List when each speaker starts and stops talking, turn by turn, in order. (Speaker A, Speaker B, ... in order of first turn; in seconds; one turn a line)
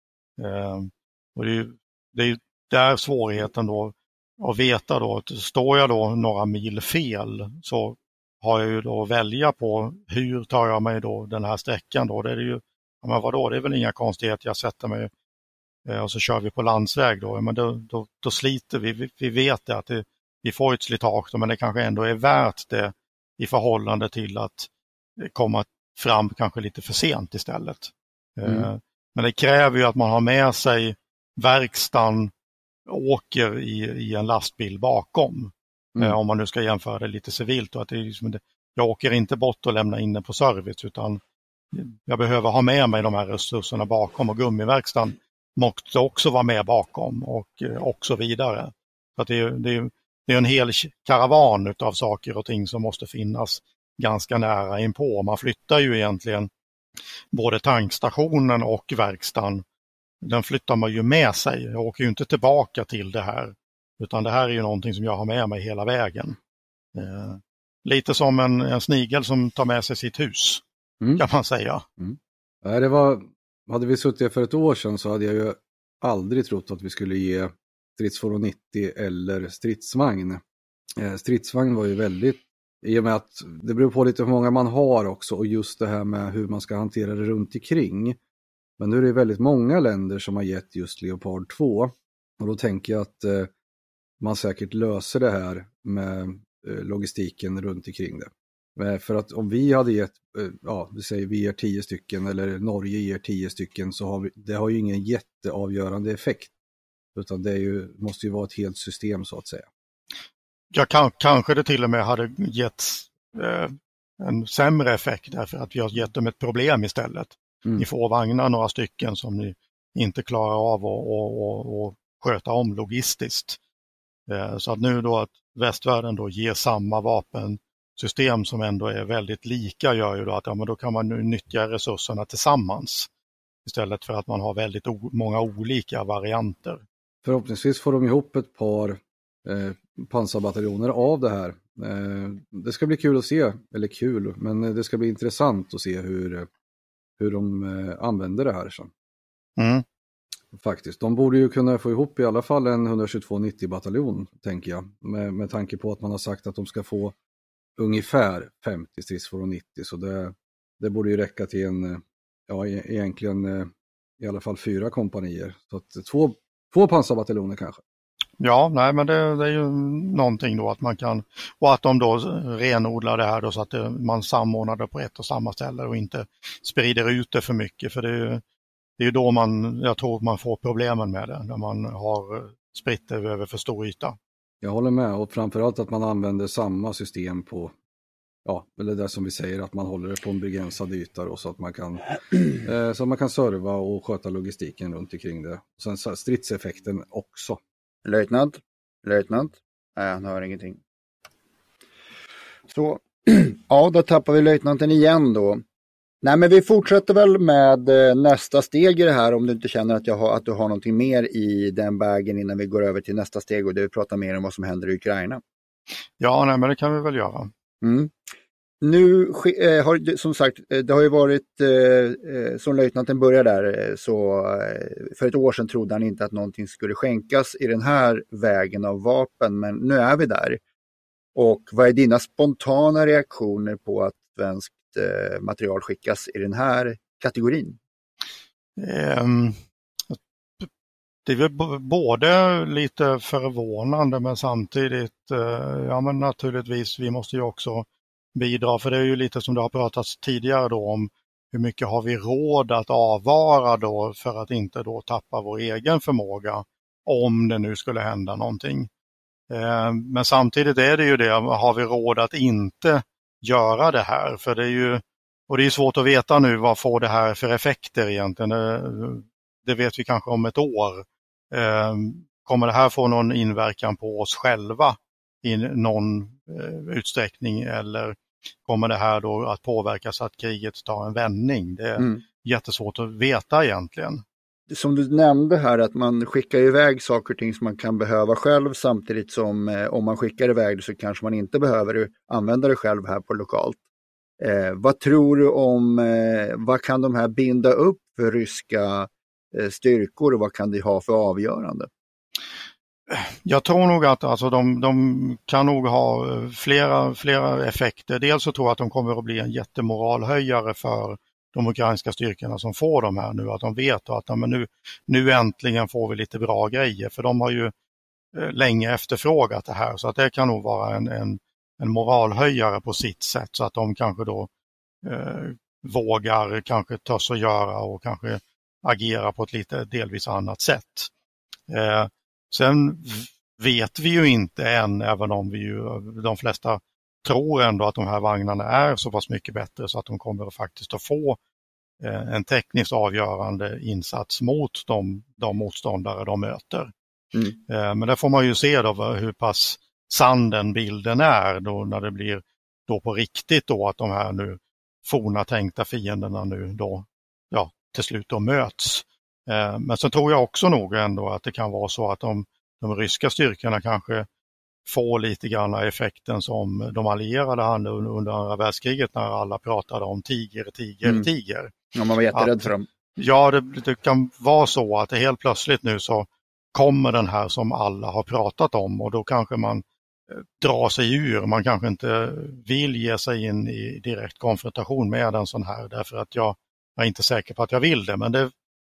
Speaker A: 0.4-15.1
Speaker A: 15.9-24.7
Speaker A: 25.2-32.3
Speaker A: 32.9-41.2
Speaker A: 41.7-56.5
Speaker A: 57.3-59.6
Speaker A: 60.2-66.4
Speaker A: 67.0-70.6
Speaker A: 71.2-71.8
Speaker B: 72.0-80.4
Speaker B: 81.0-88.2
Speaker B: 88.8-93.5
Speaker B: 94.2-106.5
Speaker B: 107.2-109.7
Speaker A: 110.7-123.6
Speaker A: 124.3-133.1
Speaker A: 133.7-136.8
Speaker B: 137.2-146.5
Speaker B: 147.2-148.9
Speaker A: 149.6-149.8
Speaker B: 150.5-157.2
Speaker B: 157.8-167.8
Speaker A: 168.4-178.4
Speaker A: 179.0-184.2
Speaker B: 184.6-187.7
Speaker B: 188.4-197.6
Speaker C: 198.1-200.8
Speaker C: 202.7-205.6
Speaker C: 206.2-215.4
Speaker A: 216.2-217.5
Speaker C: 217.8-218.2
Speaker C: 218.8-230.6
Speaker C: 231.3-237.8
Speaker A: 238.8-239.6
Speaker A: 240.1-240.7
Speaker A: 241.3-258.9
Speaker A: 259.5-284.2
Speaker C: 284.7-293.8
Speaker C: 294.4-301.9
Speaker A: 303.1-317.7
Speaker A: 318.4-324.5
Speaker A: 325.0-331.1
Speaker A: 331.7-341.4
Speaker A: 342.0-346.9
Speaker A: 347.7-364.3
Speaker A: 364.9-371.7
Speaker C: 371.9-372.9
Speaker A: 372.3-388.5